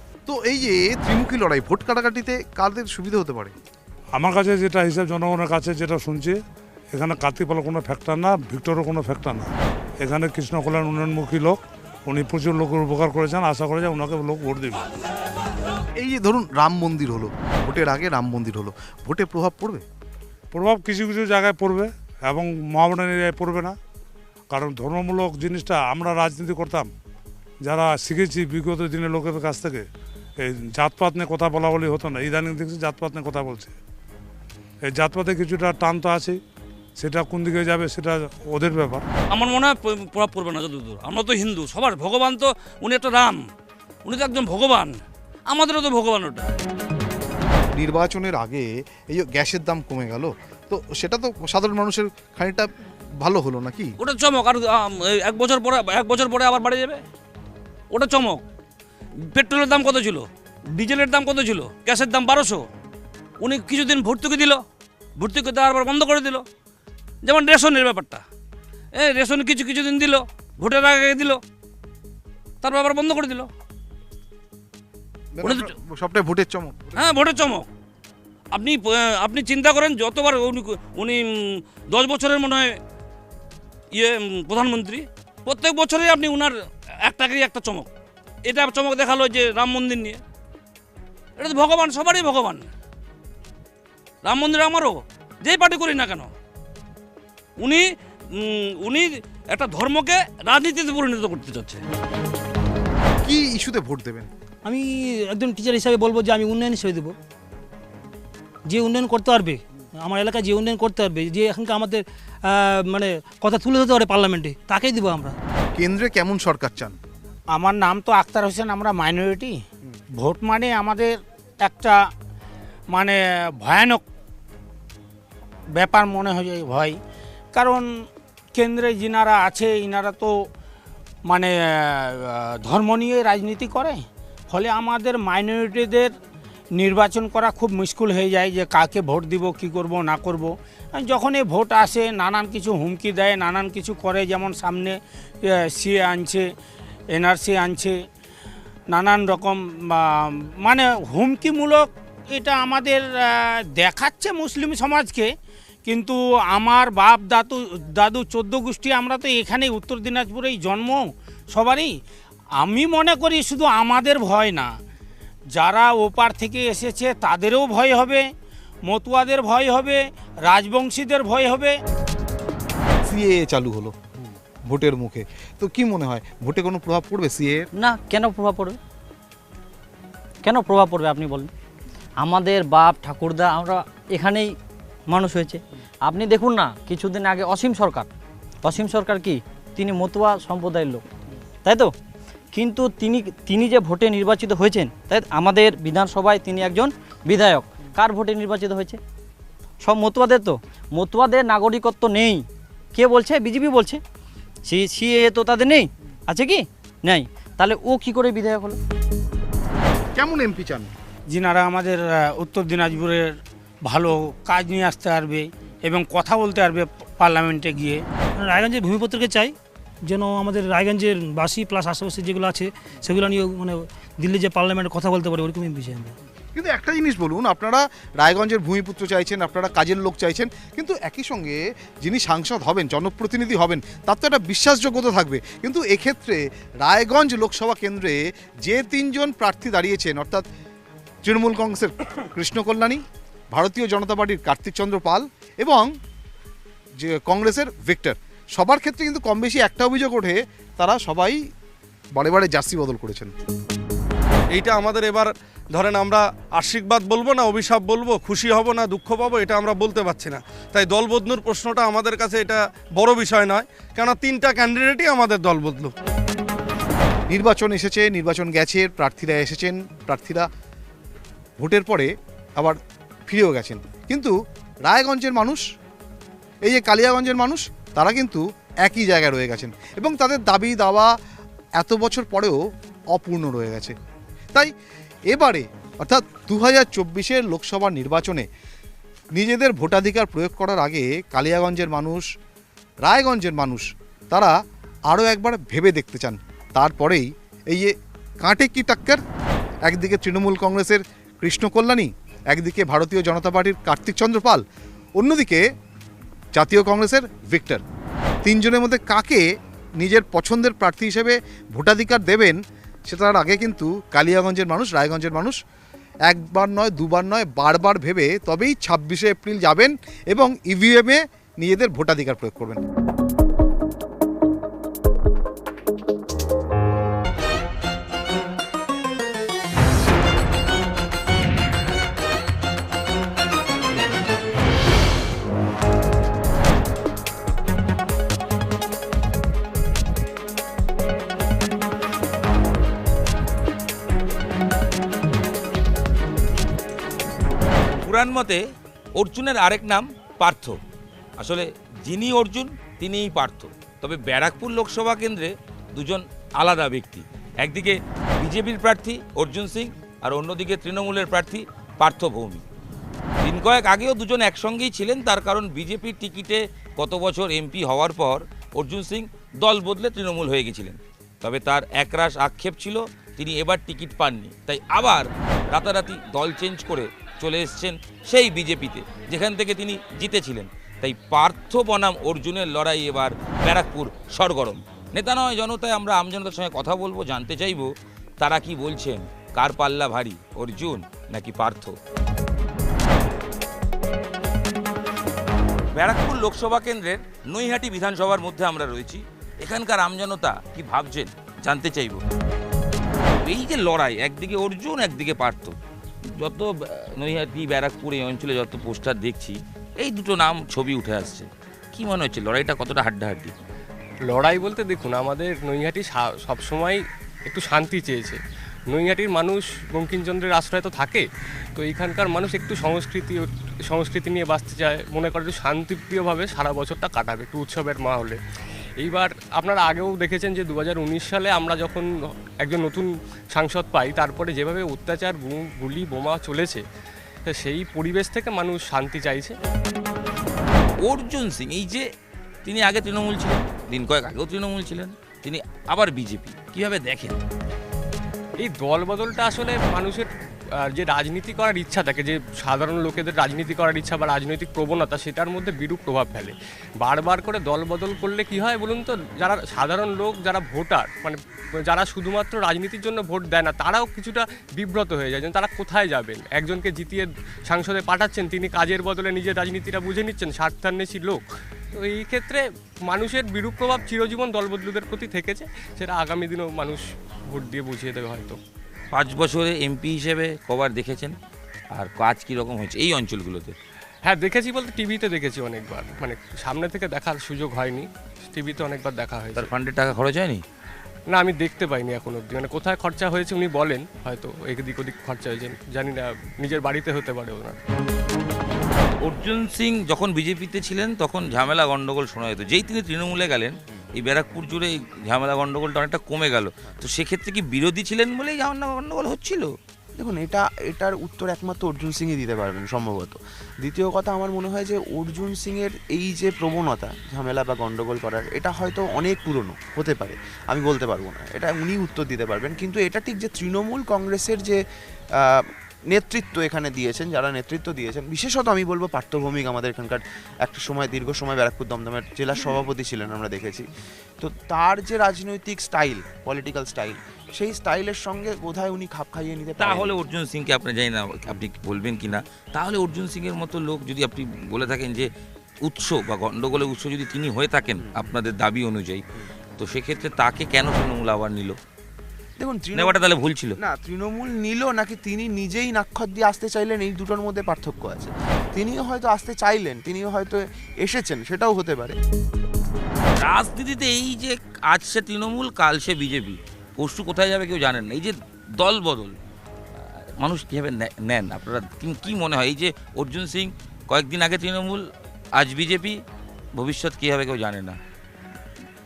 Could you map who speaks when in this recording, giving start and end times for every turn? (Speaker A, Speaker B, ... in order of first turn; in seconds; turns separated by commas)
Speaker A: 0.2-3.5, Speaker B: 4.1-6.4, Speaker B: 6.9-9.5, Speaker B: 10.0-14.9, Speaker A: 16.0-19.8, Speaker B: 20.5-23.8, Speaker B: 24.5-26.9, Speaker B: 27.6-29.9, Speaker B: 30.4-33.7, Speaker B: 34.8-36.4, Speaker B: 37.0-39.0, Speaker C: 39.3-43.4, Speaker C: 44.0-45.0, Speaker C: 45.5-46.5, Speaker A: 47.7-53.9, Speaker C: 54.0-57.0, Speaker C: 57.9-58.4, Speaker C: 59.3-62.6, Speaker C: 63.4-64.6, Speaker C: 65.2-66.4, Speaker C: 67.2-68.2, Speaker C: 68.9-71.4, Speaker C: 72.6-73.5, Speaker A: 75.3-77.1, Speaker C: 75.4-75.7, Speaker C: 77.0-77.7, Speaker C: 78.5-82.8, Speaker C: 83.9-87.9, Speaker C: 88.5-90.2, Speaker C: 91.4-92.6, Speaker C: 94.2-96.3, Speaker C: 97.6-101.8, Speaker A: 103.2-104.3, Speaker D: 104.6-107.1, Speaker D: 108.7-115.3, Speaker A: 115.8-117.0, Speaker E: 117.5-119.6, Speaker E: 120.2-122.0, Speaker E: 122.9-124.0, Speaker E: 125.7-127.0, Speaker E: 127.5-127.9, Speaker E: 128.5-130.3, Speaker E: 131.3-134.0, Speaker E: 134.5-136.1, Speaker E: 136.8-146.5, Speaker E: 147.2-148.0, Speaker E: 148.9-155.3, Speaker E: 155.8-161.9, Speaker E: 162.6-164.7, Speaker E: 165.6-168.2, Speaker E: 168.9-171.8, Speaker A: 173.1-174.0, Speaker A: 174.7-177.7, Speaker F: 177.8-178.8, Speaker F: 180.4-181.5, Speaker F: 182.2-184.5, Speaker F: 185.1-188.1, Speaker F: 188.6-191.0, Speaker F: 191.7-191.9, Speaker F: 192.5-199.0, Speaker F: 199.8-202.4, Speaker F: 202.9-204.0, Speaker F: 204.7-208.8, Speaker A: 210.1-210.9, Speaker E: 211.3-218.0, Speaker D: 218.4-219.5, Speaker D: 220.1-226.1, Speaker A: 226.5-240.4, Speaker A: 241.2-243.0, Speaker A: 243.5-245.9, Speaker A: 247.0-251.4, Speaker A: 252.1-253.3, Speaker G: 254.5-265.9, Speaker A: 267.3-270.5, Speaker A: 271.6-275.6, Speaker A: 276.6-281.1, Speaker A: 281.8-282.6, Speaker A: 283.1-283.9, Speaker A: 285.3-288.5, Speaker A: 289.3-292.3, Speaker A: 293.0-294.5, Speaker A: 295.1-299.2, Speaker A: 299.9-304.6, Speaker A: 305.2-305.6, Speaker A: 306.5-307.8, Speaker A: 308.4-309.4, Speaker A: 310.0-315.6, Speaker A: 316.3-322.8, Speaker H: 348.0-348.6, Speaker H: 349.2-350.8, Speaker H: 351.4-362.6, Speaker H: 363.4-391.9, Speaker H: 395.9-402.2, Speaker H: 403.4-405.7, Speaker H: 406.4-413.5, Speaker I: 414.3-418.4, Speaker I: 418.9-428.4, Speaker I: 429.0-436.8, Speaker I: 437.5-439.6, Speaker H: 441.0-442.1, Speaker H: 442.6-447.4, Speaker I: 448.6-450.3, Speaker I: 450.8-478.6, Speaker H: 479.1-481.3, Speaker H: 481.9-483.8, Speaker I: 484.2-489.7, Speaker H: 489.6-490.6, Speaker I: 491.3-497.8, Speaker H: 499.2-509.7, Speaker J: 510.2-524.8, Speaker J: 525.4-533.9, Speaker J: 534.4-540.2, Speaker H: 539.8-545.3, Speaker H: 545.8-549.2, Speaker H: 549.8-551.8, Speaker J: 552.6-562.1, Speaker H: 552.9-553.8, Speaker H: 563.4-569.4, Speaker H: 570.4-576.2, Speaker H: 576.8-578.0